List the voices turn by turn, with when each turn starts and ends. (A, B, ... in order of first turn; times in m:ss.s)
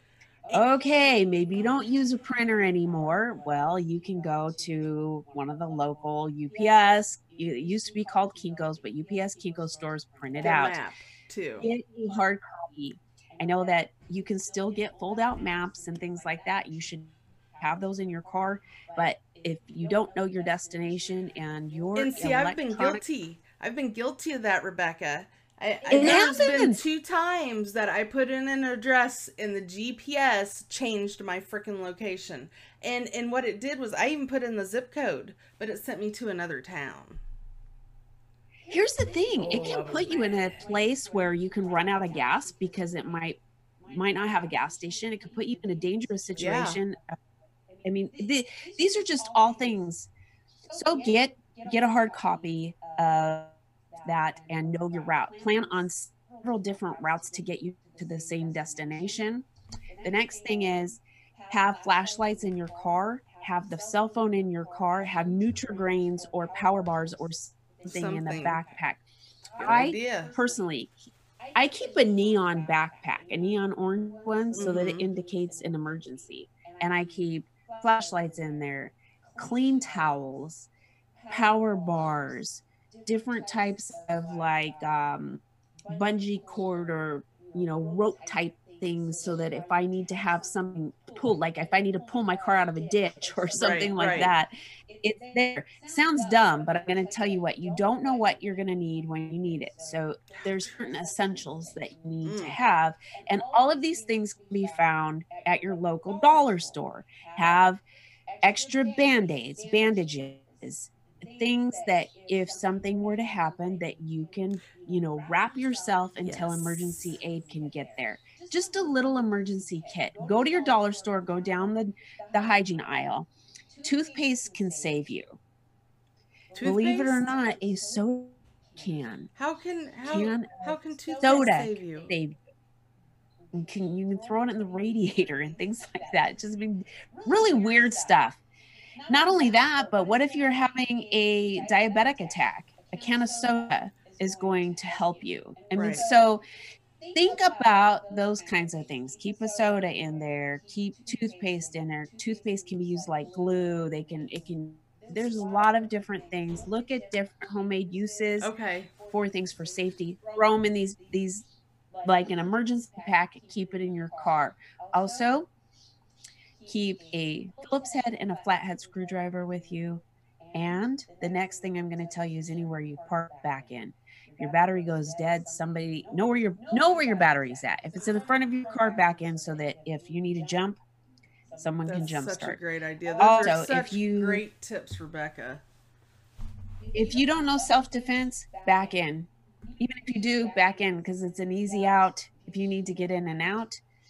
0:00.5-0:10.8 A
0:10.4-0:11.7 B
0:11.6-0:23.0 A
0:22.0-0:37.2 B
0:25.9-0:26.8 A
0:38.7-0:47.0 A
0:39.4-0:40.6 B
0:46.4-0:46.8 B
0:47.8-0:50.1 A
0:50.7-0:59.5 A
1:00.0-1:09.0 A
1:07.8-1:08.6 B
1:09.6-1:10.9 A
1:09.6-1:10.4 B
1:11.6-1:20.7 A
1:14.5-1:15.1 B
1:21.3-1:47.8 A
1:33.5-1:34.3 B
1:42.2-1:42.6 B
1:48.4-2:03.3 A
1:56.2-1:57.1 B
2:03.8-2:05.4 A
2:06.6-2:07.5 B
2:06.6-2:09.3 A
2:09.4-2:12.1 B
2:10.1-2:12.4 A
2:13.5-2:18.4 A
2:19.1-2:26.4 A
2:25.7-2:26.0 B
2:27.1-2:38.5 A
2:38.4-2:38.9 B
2:39.1-2:41.4 A
2:42.0-2:45.5 A
2:46.7-2:50.0 A
2:50.5-3:00.8 A
3:01.6-3:02.6 A
3:01.8-3:05.6 B
3:03.2-3:04.4 A
3:06.9-3:13.8 A